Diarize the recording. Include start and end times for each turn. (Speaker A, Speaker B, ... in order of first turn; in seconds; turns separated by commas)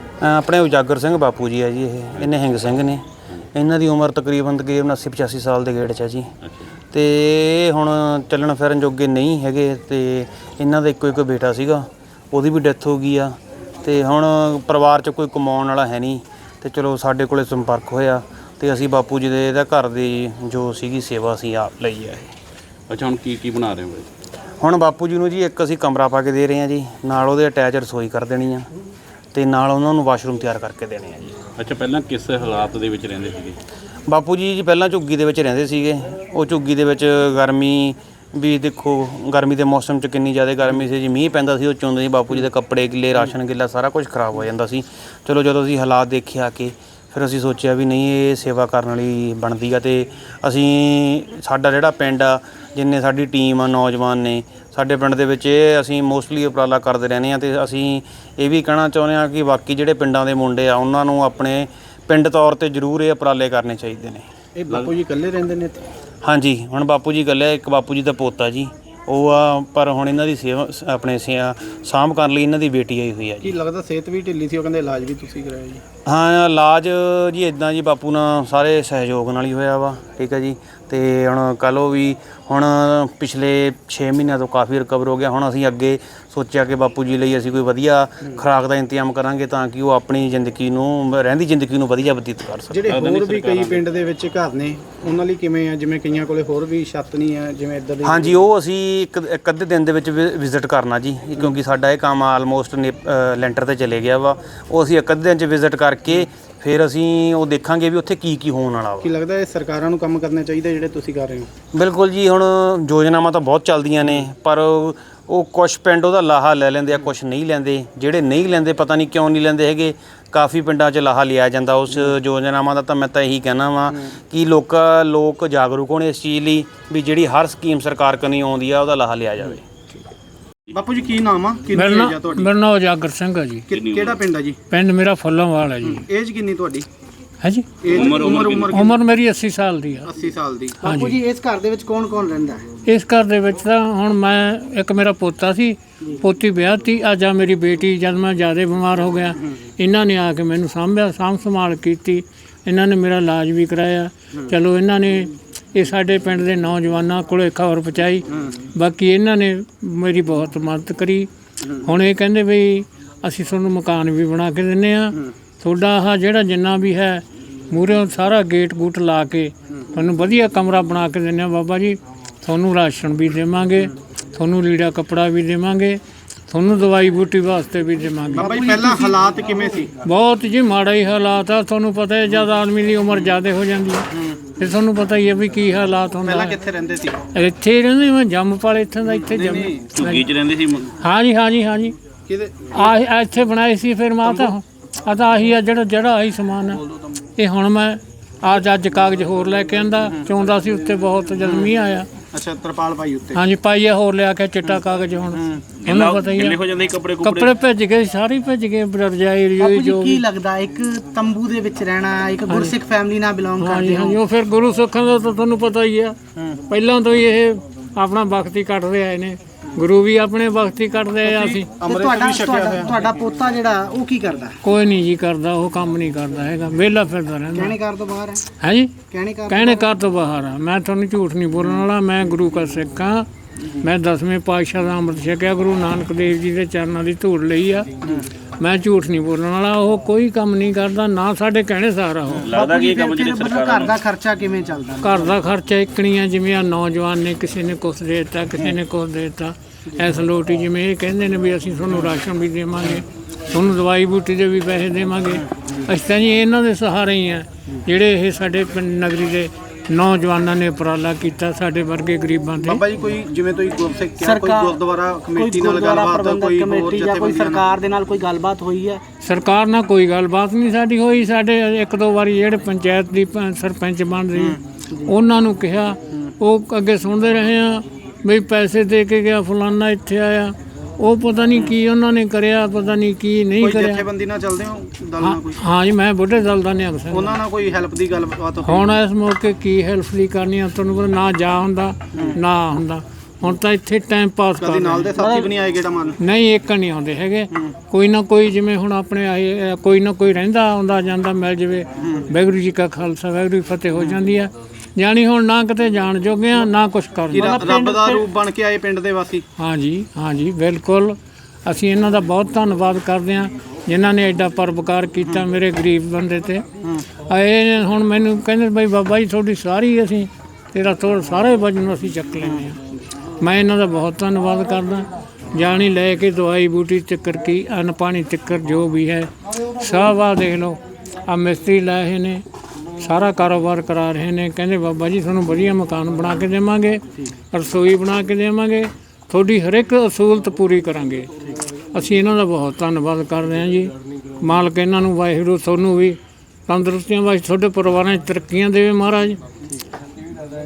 Speaker A: 0.2-6.3, Speaker B: 6.4-6.7, Speaker A: 6.9-22.3, Speaker B: 22.9-24.1, Speaker A: 24.6-28.7, Speaker A: 29.3-31.4, Speaker B: 31.6-33.6, Speaker A: 34.1-64.3, Speaker C: 64.6-65.9, Speaker B: 64.7-64.9, Speaker A: 66.2-73.6, Speaker C: 73.4-75.8, Speaker A: 76.1-92.9, Speaker C: 92.7-98.4, Speaker B: 92.8-93.9, Speaker A: 98.0-109.1, Speaker C: 109.0-111.5, Speaker A: 111.8-129.7, Speaker C: 130.7-132.5, Speaker D: 131.7-133.7, Speaker C: 133.7-134.6, Speaker B: 133.7-134.2, Speaker D: 134.7-136.0, Speaker C: 135.8-136.9, Speaker D: 137.4-137.7, Speaker C: 137.8-139.0, Speaker B: 137.9-138.8, Speaker D: 138.7-140.1, Speaker C: 140.1-140.8, Speaker E: 140.8-142.7, Speaker D: 140.8-141.2, Speaker D: 142.9-179.0, Speaker C: 178.4-179.9, Speaker E: 178.4-179.5, Speaker D: 180.0-186.6, Speaker C: 186.2-187.2, Speaker D: 187.3-190.2, Speaker C: 189.1-189.9, Speaker B: 189.9-190.9, Speaker D: 191.0-192.0, Speaker C: 192.3-192.9, Speaker D: 192.7-196.8, Speaker C: 194.2-194.5, Speaker D: 197.4-202.1, Speaker C: 201.4-201.7, Speaker C: 202.3-203.4, Speaker D: 203.3-206.6, Speaker B: 205.8-207.5, Speaker D: 207.2-210.2, Speaker E: 209.6-214.2, Speaker D: 212.5-212.7, Speaker D: 213.6-216.2, Speaker D: 216.7-221.7, Speaker C: 221.3-222.9, Speaker E: 221.8-224.6, Speaker D: 224.6-227.8, Speaker E: 227.6-228.4, Speaker D: 228.6-228.9, Speaker E: 229.1-229.9, Speaker D: 229.5-233.3, Speaker D: 233.8-237.9, Speaker D: 238.6-242.5, Speaker B: 242.4-244.0, Speaker E: 242.5-245.3, Speaker D: 245.0-262.8, Speaker C: 262.6-267.6, Speaker E: 264.2-264.8, Speaker E: 265.3-269.0, Speaker D: 269.2-284.1, Speaker C: 283.6-285.6, Speaker D: 285.2-287.4, Speaker C: 287.1-288.9, Speaker D: 288.6-295.5, Speaker C: 294.6-296.2, Speaker D: 296.2-308.3, Speaker C: 307.3-309.4, Speaker D: 309.6-316.6, Speaker D: 317.2-322.8, Speaker D: 323.4-332.4, Speaker D: 333.0-341.3, Speaker D: 341.9-349.4